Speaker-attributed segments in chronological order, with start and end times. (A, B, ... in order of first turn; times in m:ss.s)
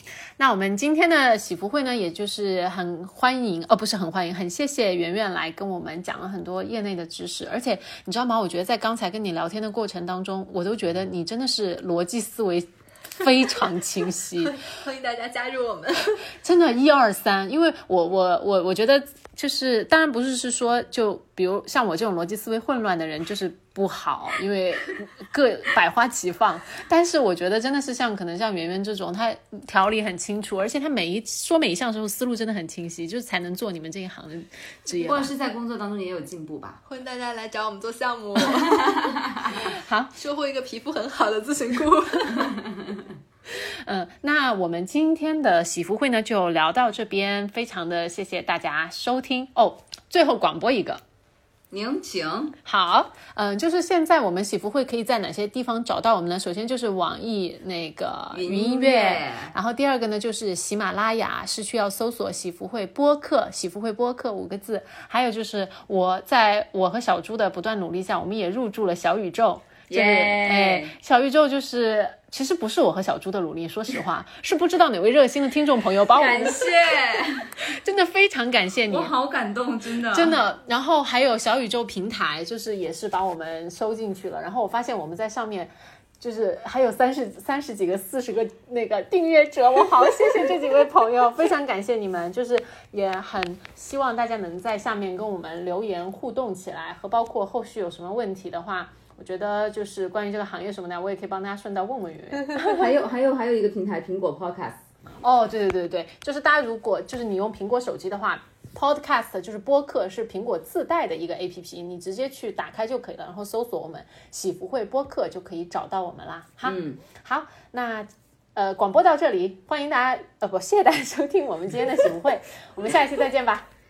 0:00.4-0:14.6 A
0:14.4-0:16.3 B
0:16.4-0:35.3 A
0:35.0-0:36.8 C
0:36.8-0:39.6 B
0:38.4-0:39.5 C
0:39.5-0:40.1 A
0:40.1-0:42.6 B
0:42.7-0:43.0 C
0:43.6-0:51.0 A
0:51.7-0:52.6 C
0:52.7-1:16.7 A
0:58.3-0:59.5 C
1:09.9-1:11.0 C
1:16.1-1:17.5 C
1:17.6-1:19.1 A
1:18.9-1:20.4 C
1:20.1-1:42.8 A
1:42.5-1:44.8 C
1:45.2-2:03.7 A
1:56.6-1:57.0 C